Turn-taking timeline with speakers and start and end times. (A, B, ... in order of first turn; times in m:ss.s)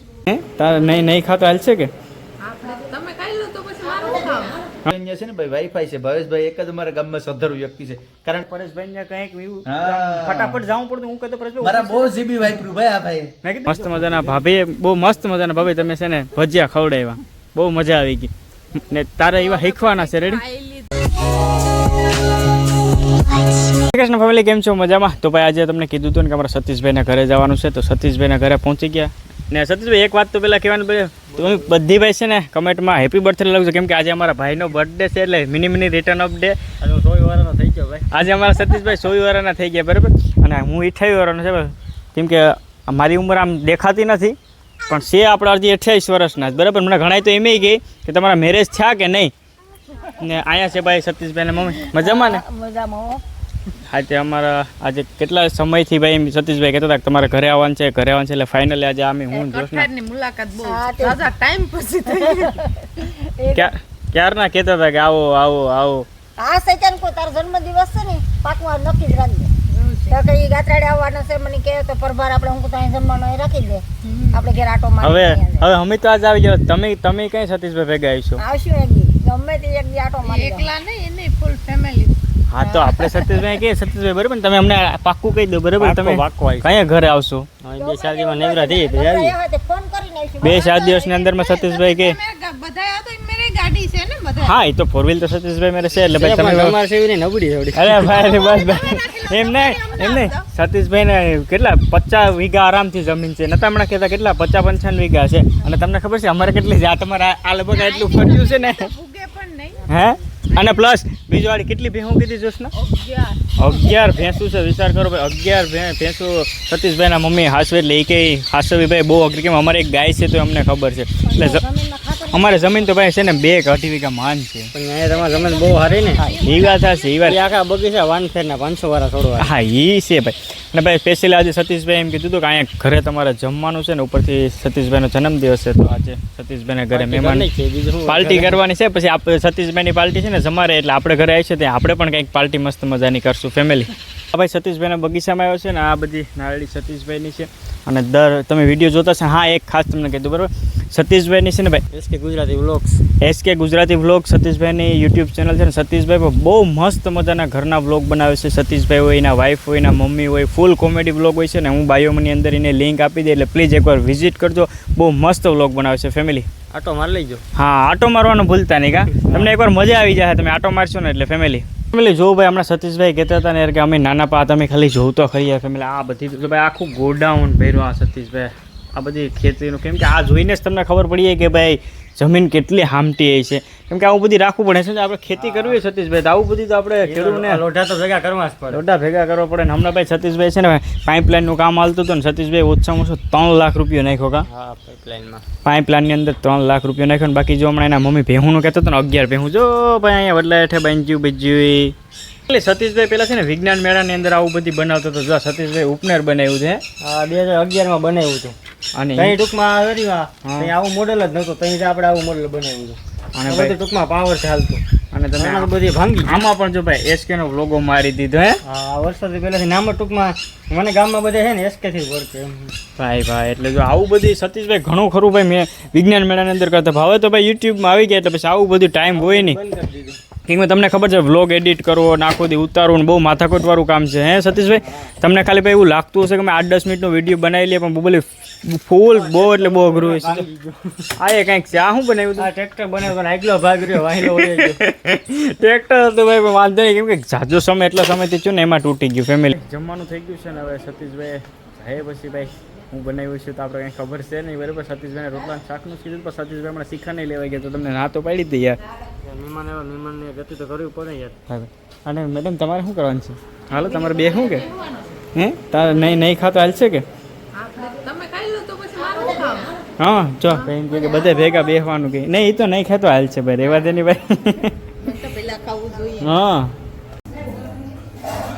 0:00.2-0:01.9 A
0:02.4-0:04.6 B
0:04.9-0:08.5 C
0:08.5-0:12.1 A
0:09.6-0:10.6 C
0:11.6-0:13.3 C
0:13.4-0:20.4 A
0:19.3-0:21.2 B
0:23.7-0:36.6 A
0:31.3-0:31.7 D
0:36.8-0:38.1 D
0:38.1-0:44.4 A
0:44.9-0:49.3 A
0:50.1-0:52.4 A
0:51.8-0:53.2 E
0:53.9-0:59.9 A
0:59.3-1:03.2 B
1:00.6-1:01.2 E
1:03.2-1:03.7 E
1:03.5-1:06.1 A
1:06.4-1:09.5 E
1:09.7-1:10.2 B
1:10.1-1:15.7 E
1:14.0-1:14.5 B
1:15.0-1:18.4 A
1:18.4-1:20.7 E
1:20.2-1:22.2 B
1:22.5-1:27.4 A
1:22.9-1:23.4 B
1:25.8-1:26.8 D
1:27.6-1:29.4 D
1:27.8-1:30.6 E
1:30.4-1:32.2 A
1:30.4-1:34.5 B
1:34.4-1:36.8 A
1:36.1-1:38.3 D
1:37.7-1:48.9 A
1:38.2-1:40.4 B
1:47.7-1:49.9 B
1:49.9-1:52.7 A
1:50.5-1:50.8 B
1:52.7-1:53.9 B
1:53.6-2:01.6 A
2:01.2-2:03.1 E
2:02.3-2:04.7 A
2:04.7-2:06.4 D
2:05.1-2:07.2 E
2:06.3-2:07.4 A
2:07.2-2:09.5 D
2:09.4-2:17.5 A
2:16.9-2:18.6 D
2:18.0-2:31.8 A
2:31.9-2:33.0 D
2:33.2-2:46.5 A
2:46.7-2:47.4 D
2:47.5-3:07.6 A
2:49.2-2:49.5 D
3:05.3-3:05.8 D
3:07.0-3:08.8 D
3:08.7-3:14.4 A
3:14.4-3:15.4 D
3:15.6-3:21.9 A
3:22.5-3:26.8 A
3:27.0-3:28.6 D
3:28.9-3:29.4 A
3:29.1-3:34.8 D
3:30.4-3:30.7 A
3:33.3-3:33.8 A
3:35.1-3:35.7 A
3:35.3-3:36.4 D
3:36.2-3:38.6 A
3:38.6-3:42.7 D
3:43.0-3:49.6 A
3:49.1-3:50.2 D
3:50.4-4:00.5 A
3:54.8-3:55.1 D
3:59.1-4:01.1 D
4:01.2-4:02.5 A
4:02.4-4:04.8 D
4:04.0-4:18.8 A
4:19.2-4:21.4 D
4:21.5-4:24.7 A
4:23.9-4:25.1 B
4:25.3-4:27.0 A
4:27.5-4:29.8 B
4:30.0-4:34.7 A
4:35.0-4:36.4 B
4:36.2-4:36.7 A